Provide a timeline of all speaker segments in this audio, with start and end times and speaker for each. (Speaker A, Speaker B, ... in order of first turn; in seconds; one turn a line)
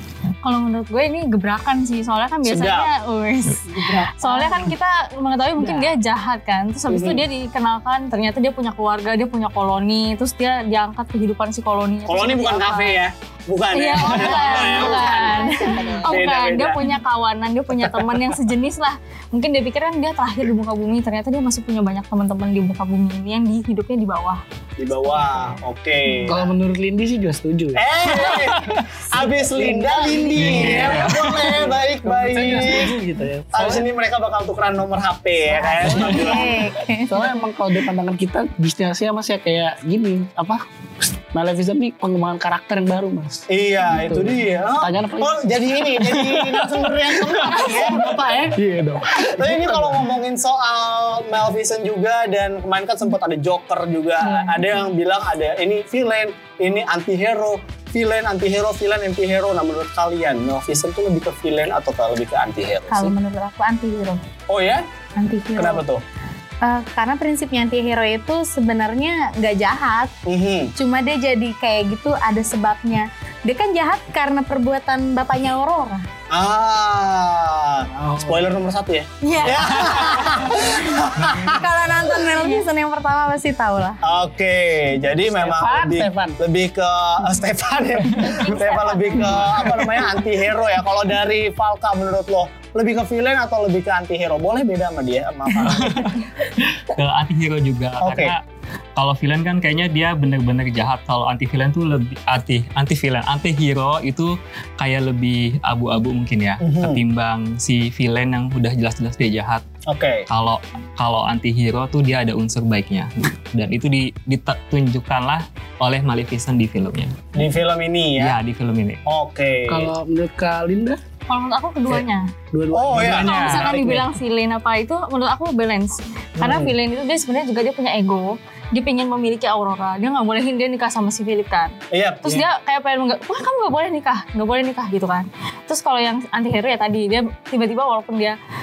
Speaker A: 0.4-13.0
Speaker B: 2.4-2.9
Speaker C: 3.9-4.6
Speaker D: 5.6-5.9
Speaker B: 6.9-7.2
Speaker B: 12.0-15.3
Speaker A: 13.7-24.4
Speaker C: 14.0-16.2
Speaker B: 16.0-16.8
Speaker B: 17.8-18.1
Speaker B: 24.8-26.5
Speaker D: 26.2-33.9
Speaker B: 27.7-33.0
Speaker C: 29.6-31.1
Speaker E: 30.3-31.3
Speaker B: 33.5-36.5
Speaker C: 35.6-37.3
Speaker D: 35.7-36.5
Speaker D: 37.1-40.6
Speaker D: 41.3-50.0
Speaker B: 43.5-48.5
Speaker B: 49.1-63.1
Speaker C: 54.2-54.9
Speaker C: 62.9-64.2
Speaker B: 64.5-64.8
Speaker C: 65.2-65.8
Speaker B: 65.5-66.0
Speaker C: 66.6-70.1
Speaker B: 70.2-70.7
Speaker C: 70.8-76.0
Speaker B: 76.3-81.5
Speaker D: 78.0-78.6
Speaker A: 79.2-80.4
Speaker E: 81.2-81.5
Speaker C: 81.2-84.0
Speaker B: 84.0-96.1
Speaker D: 85.2-86.4
Speaker A: 88.7-89.0
Speaker E: 95.7-96.2
Speaker E: 96.9-98.4
Speaker B: 98.0-98.3
Speaker E: 99.0-109.6
Speaker B: 106.6-107.0
Speaker B: 109.9-110.2
Speaker E: 110.3-117.3
Speaker B: 117.3-118.4
Speaker E: 118.2-119.0
Speaker B: 119.0-119.9
Speaker D: 119.7-121.0
Speaker A: 121.3-122.3
Speaker D: 121.9-124.0
Speaker B: 122.7-123.9
Speaker A: 123.2-138.4
Speaker E: 123.2-123.7
Speaker B: 126.4-126.7
Speaker B: 131.9-132.4